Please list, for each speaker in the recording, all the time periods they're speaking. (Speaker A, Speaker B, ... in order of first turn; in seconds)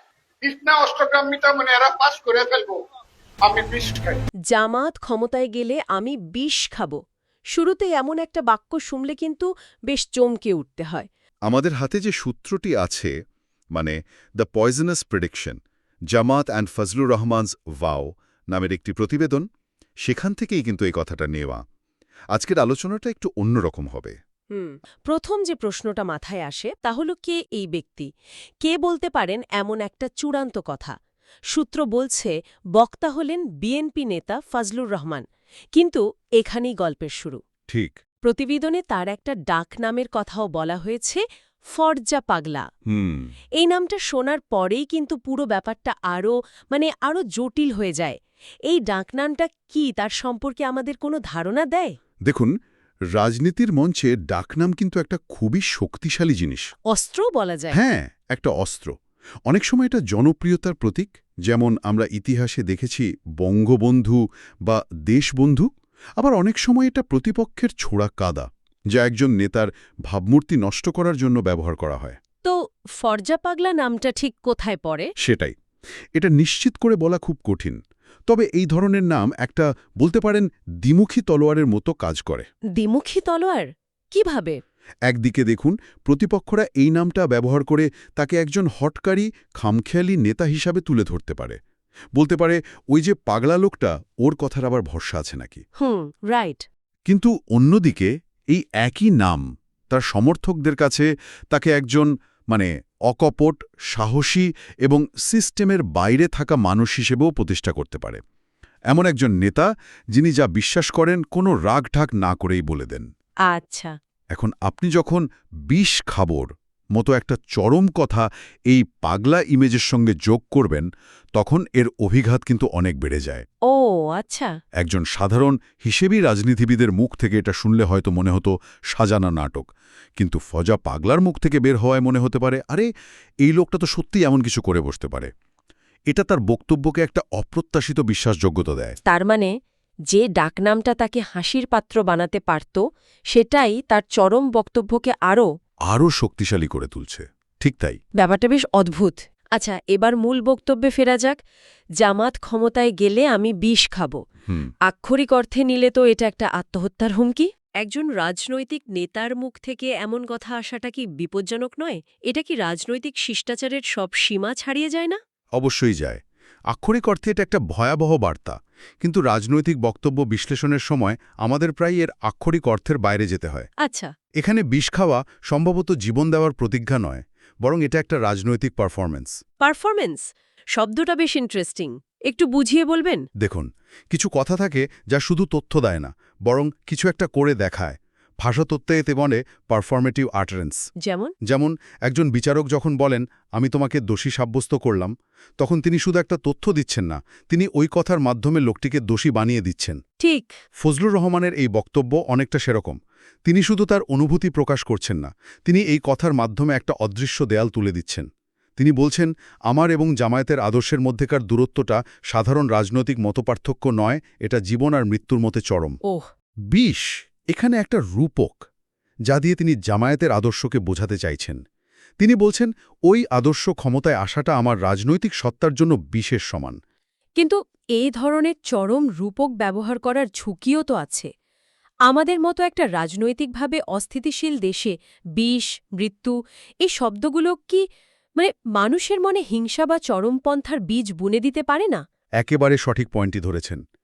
Speaker A: 0.4-2.8, 3.5-4.2
Speaker B: 4.5-7.0, 7.5-11.1, 24.5-28.1, 28.6-30.9, 31.5-35.2, 35.8-37.4, 38.2-42.6, 43.6-48.2, 48.7-52.0, 56.9-57.8, 72.4-75.1, 82.8-84.6, 95.8-96.7, 113.5-113.9, 123.7-124.5, 139.1-139.5, 140.1-145.5, 148.2-151.4, 152.0-154.2, 154.9-165.2, 173.8-174.1, 179.6-183.2, 191.0-191.3, 200.2-200.5, 227.4-231.3, 232.1-237.8, 238.4-242.0
Speaker C: 11.5-13.1, 13.8-15.6, 16.1-19.5, 20.0-21.6, 22.3-24.2, 37.7-38.0, 42.9-43.3, 52.3-52.5, 53.1-56.7, 57.7-58.9, 59.5-65.7, 66.2-72.2, 75.2-75.5, 76.2-82.5, 85.1-91.6, 92.2-95.6, 97.1-108.2, 108.9-113.1, 114.3-123.4, 124.8-129.7, 130.2-132.9, 133.4-135.3, 136.1-139.0, 145.9-148.0, 165.6-173.7, 174.4-179.4, 183.4-190.8, 191.5-200.0, 200.8-216.0, 216.7-218.7, 219.3-221.6, 222.2-226.8, 242.4-243.8